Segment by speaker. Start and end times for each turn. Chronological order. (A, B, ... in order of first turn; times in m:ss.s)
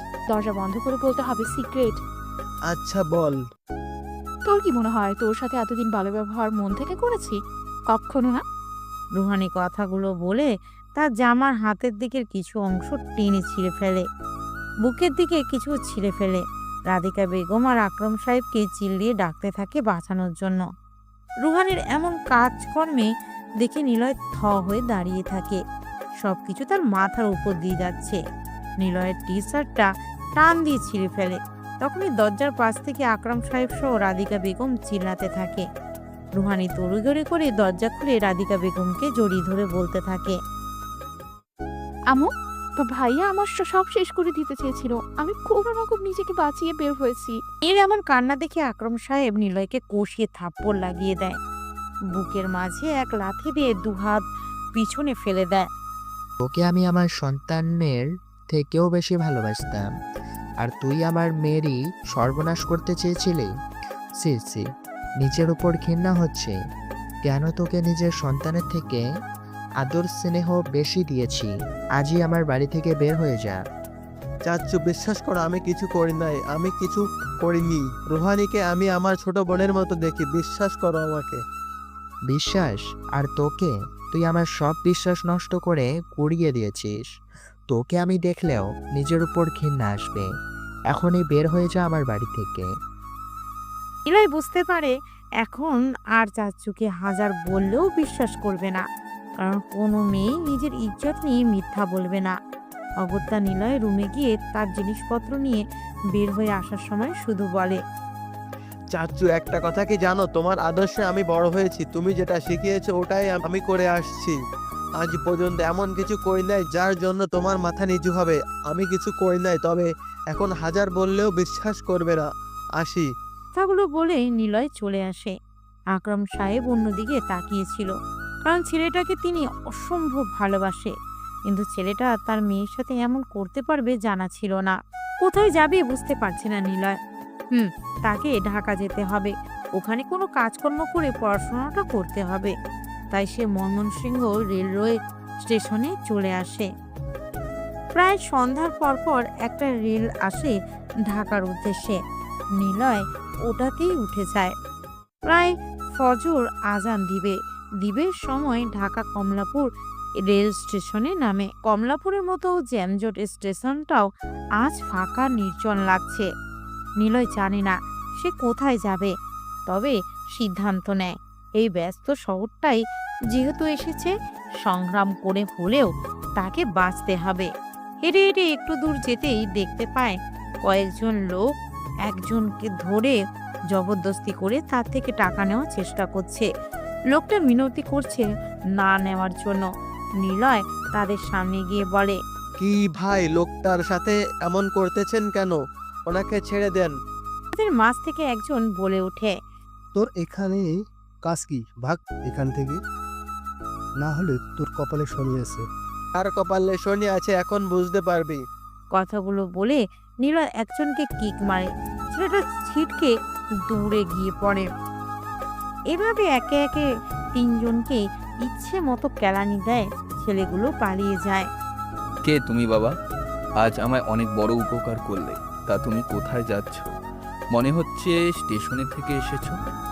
0:00.3-0:02.0 A
0:02.7-0:03.4 B
0:04.4-0:07.4 A
0:07.9-0:08.4 A
0:09.2-0:14.0 C
0:14.8-0:20.6 C
0:21.5-0:23.1 C
0:23.6-0:25.6 C
0:26.2-0:28.2 C
0:28.8-0:35.6 C
0:36.4-0:40.4 C
0:42.1-0:47.4 A
0:47.6-0:51.4 C
0:52.2-0:54.2 C
0:54.8-0:55.7 C
0:56.4-0:59.9 D
1:00.6-1:03.5 D
1:04.2-1:04.6 D
1:05.2-1:06.6 D
1:07.2-1:09.0 D
1:09.8-1:13.6 D
1:14.5-1:21.4 B
1:22.3-1:27.1 D
1:27.7-1:30.3 D
1:30.9-1:32.7 D
1:34.1-1:38.8 C
1:39.4-1:42.4 C
1:43.0-1:45.6 C
1:46.2-1:47.8 C
1:48.9-1:54.4 B
1:55.0-2:02.3 B
2:02.8-2:03.1 B
2:03.6-2:05.3 C
2:06.0-2:07.9 C
2:08.5-2:10.9 C
2:11.5-2:17.0 C
2:17.5-2:22.5 C
2:23.1-2:26.7 C
2:28.0-2:30.6 C
2:31.1-2:32.0 C
2:32.6-2:34.5 C
2:35.3-2:39.7 C
2:40.2-2:44.1 C
2:44.6-2:46.3 C
2:47.0-2:49.1 C
2:49.7-2:52.8 C
2:53.3-2:54.1 C
2:54.6-2:57.5 C
2:58.0-3:01.5 C
3:02.1-3:03.2 C
3:03.7-3:06.5 C
3:07.1-3:08.3 C
3:08.8-3:09.7 C
3:10.2-3:12.2 C
3:12.6-3:15.6 B
3:16.1-3:16.9 B
3:17.5-3:19.4 C
3:19.9-3:22.8 E
3:24.0-3:25.7 E
3:26.2-3:28.4 B
3:28.9-3:33.1 C
3:33.7-3:34.7 C
3:35.9-3:41.4 C
3:42.2-3:42.9 F
3:43.6-3:46.9 F
3:47.5-3:49.6 F